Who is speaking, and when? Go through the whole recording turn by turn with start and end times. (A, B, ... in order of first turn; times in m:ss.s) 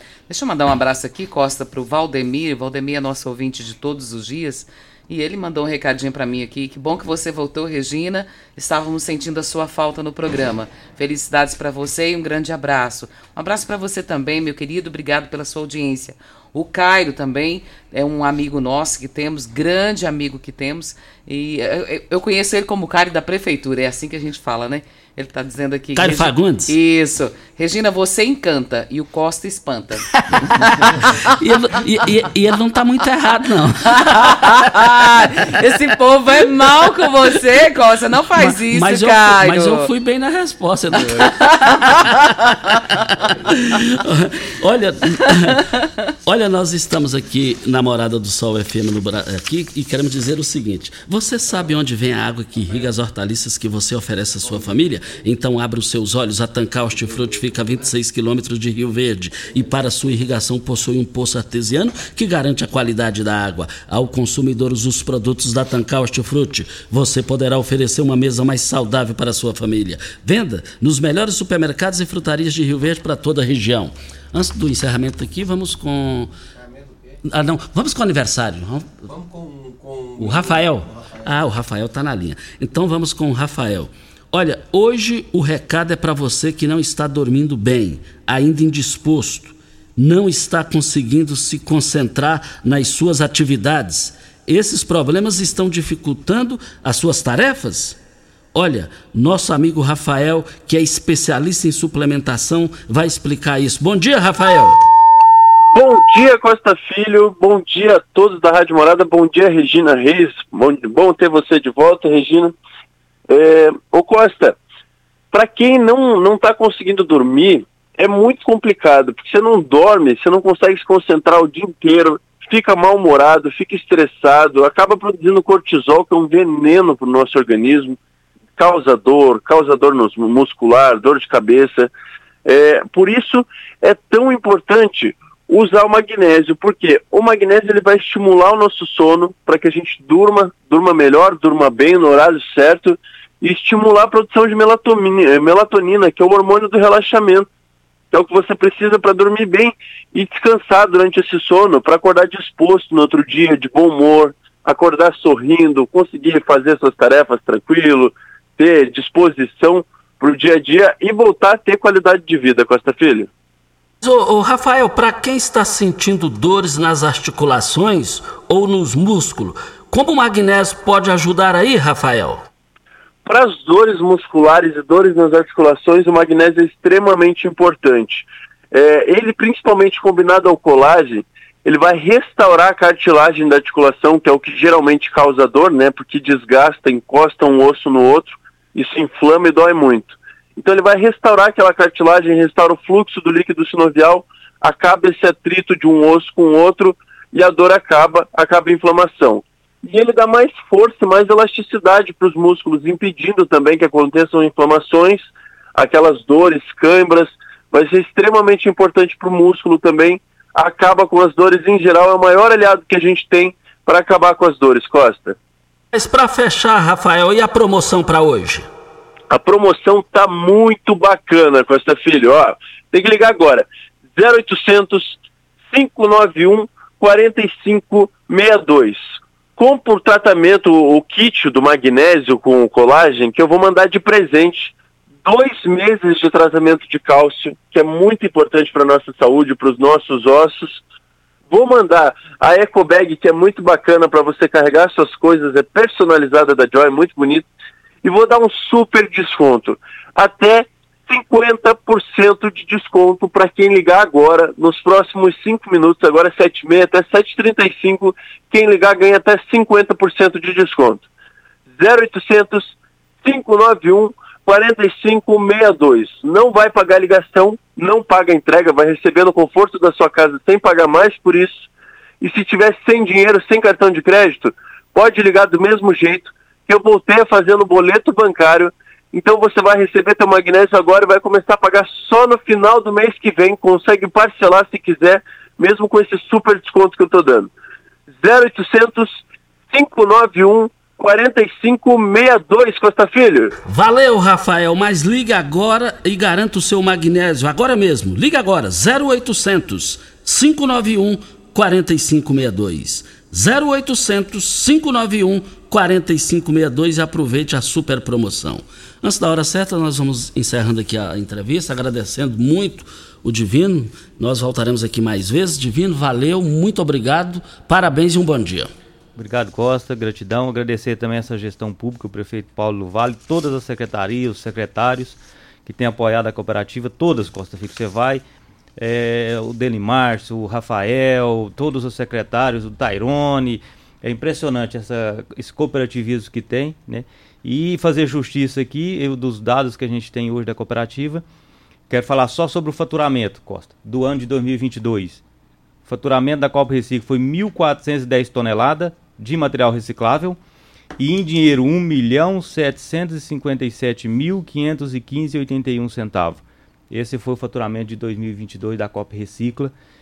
0:00.3-0:31.0 A
0:25.9-0:26.7 B
0:30.5-0:34.6 B
0:33.9-0:39.9 A
0:38.4-0:41.3 B
0:41.0-0:41.8 A
0:42.9-0:45.6 B
0:46.2-1:16.3 B
1:16.6-1:17.2 C
1:17.2-1:18.9 B
1:19.1-1:21.3 C
1:20.2-1:38.0 B
1:38.5-1:44.8 B
1:45.7-1:52.5 D
1:53.3-1:54.6 D
1:55.3-2:08.0 D
2:08.6-2:11.9 D
2:12.4-2:27.5 D
2:28.1-2:43.3 D
2:44.0-2:52.4 B
2:53.2-3:35.4 D
3:35.9-3:38.7 B
3:39.3-3:45.2 D
3:45.7-3:49.0 D
3:49.6-3:54.7 D
3:55.2-4:00.8 D
4:01.5-4:07.4 D
4:08.0-4:21.0 D
4:21.8-4:22.7 D
4:23.2-4:31.6 D
4:32.2-4:47.5 D
4:48.2-4:53.5 D
4:53.6-5:18.7 B
5:19.2-5:28.2 E
5:28.8-5:41.2 E
5:41.9-5:45.2 E
5:45.8-5:50.4 E
5:51.0-5:59.7 E